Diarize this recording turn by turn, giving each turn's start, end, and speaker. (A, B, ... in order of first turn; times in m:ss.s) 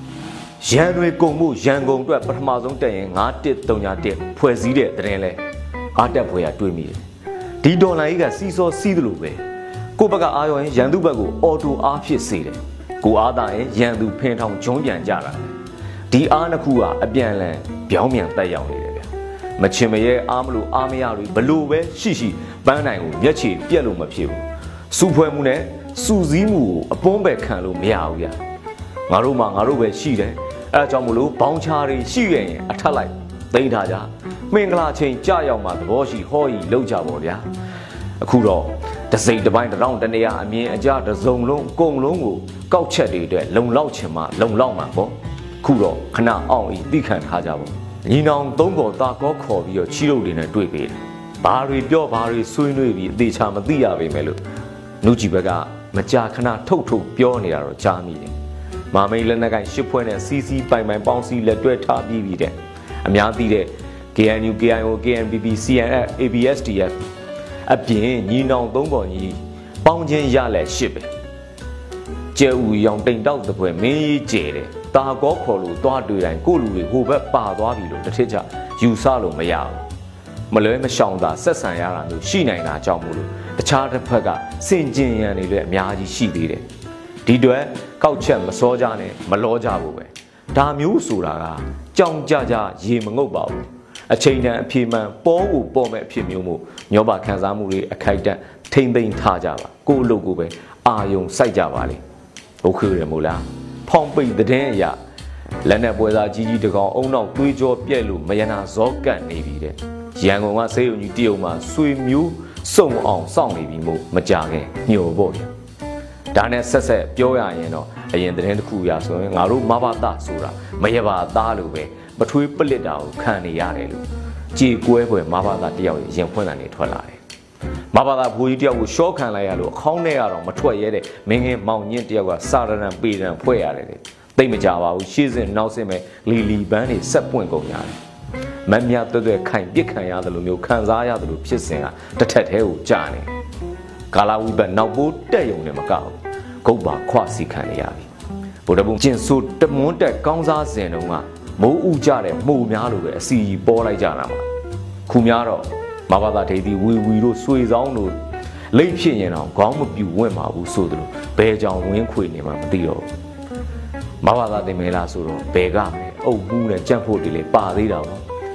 0:00.6-0:05.4 A
0:05.9-0:07.0 A
0:07.6-0:09.4 A
0:10.0-0:15.5 A
0:16.1-0:28.4 A
0:29.1-0:37.4 A
0:38.2-0:54.4 A
0:55.0-0:58.3 A
0:58.9-1:07.0 A
1:07.6-1:11.1 A
1:12.3-1:19.9 A
1:20.5-1:26.6 A
1:27.2-1:42.0 A
1:42.6-1:45.0 A
1:45.6-1:55.5 A
1:56.3-2:07.2 A
2:07.9-2:18.0 A
2:18.6-2:23.3 A
2:24.1-2:28.1 A
2:28.6-2:34.4 A
2:35.1-2:38.2 A
2:38.7-2:43.1 A
2:44.2-2:48.2 A